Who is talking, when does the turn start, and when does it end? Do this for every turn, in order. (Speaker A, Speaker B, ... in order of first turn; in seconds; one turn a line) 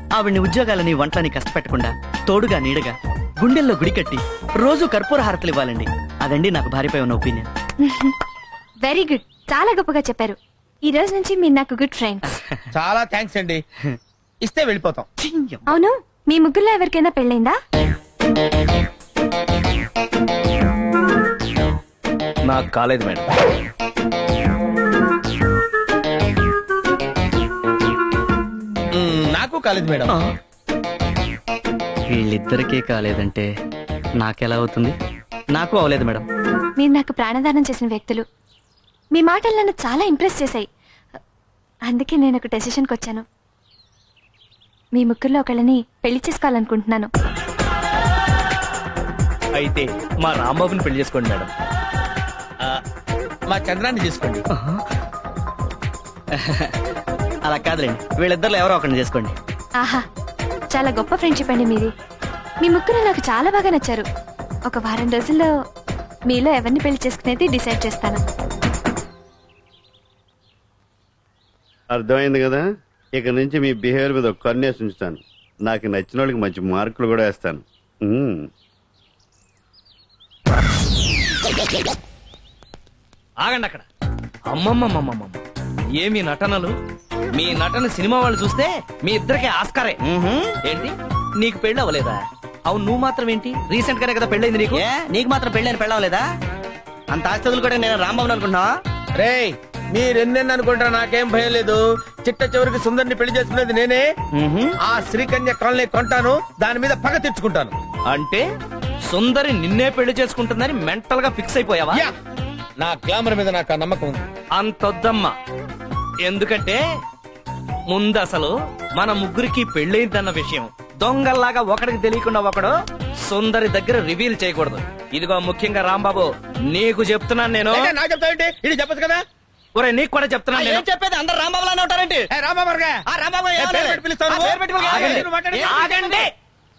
Speaker A: 0.1-7.5
Speaker B: 7.8-8.1
Speaker B: 8.8-12.4
Speaker C: 12.7-13.6
Speaker C: 14.4-15.1
Speaker A: 15.2-15.6
Speaker B: 15.7-17.6
Speaker D: 22.5-23.3
Speaker C: 28.9-30.1
Speaker A: 30.1-30.3
Speaker A: 32.1-33.5
Speaker A: 34.2-34.9
Speaker A: 35.5-36.2
Speaker B: 36.8-38.2
Speaker B: 39.1-40.7
Speaker B: 41.9-43.2
Speaker B: 44.9-47.1
Speaker D: 49.6-51.5
Speaker C: 53.5-54.4
Speaker A: 54.5-54.8
Speaker A: 56.4-56.7
Speaker A: 57.4-59.3
Speaker B: 59.8-60.0
Speaker B: 60.7-61.9
Speaker B: 62.6-64.0
Speaker B: 64.7-65.5
Speaker B: 66.3-68.2
Speaker E: 71.9-78.5
Speaker D: 83.4-83.8
Speaker D: 84.5-85.4
Speaker D: 86.0-86.7
Speaker D: 87.3-90.0
Speaker A: 90.0-90.5
Speaker D: 90.6-94.8
Speaker A: 94.7-96.2
Speaker A: 97.1-98.7
Speaker C: 99.2-104.0
Speaker C: 104.8-107.7
Speaker D: 108.1-108.4
Speaker D: 109.1-112.0
Speaker C: 112.8-114.3
Speaker D: 114.6-115.3
Speaker D: 116.2-116.8
Speaker D: 117.9-122.7
Speaker D: 123.2-127.9
Speaker C: 127.7-129.2
Speaker D: 129.7-130.8
Speaker A: 130.5-132.3
Speaker C: 132.3-133.0
Speaker A: 133.0-136.2
Speaker C: 133.6-136.1
Speaker D: 134.8-136.3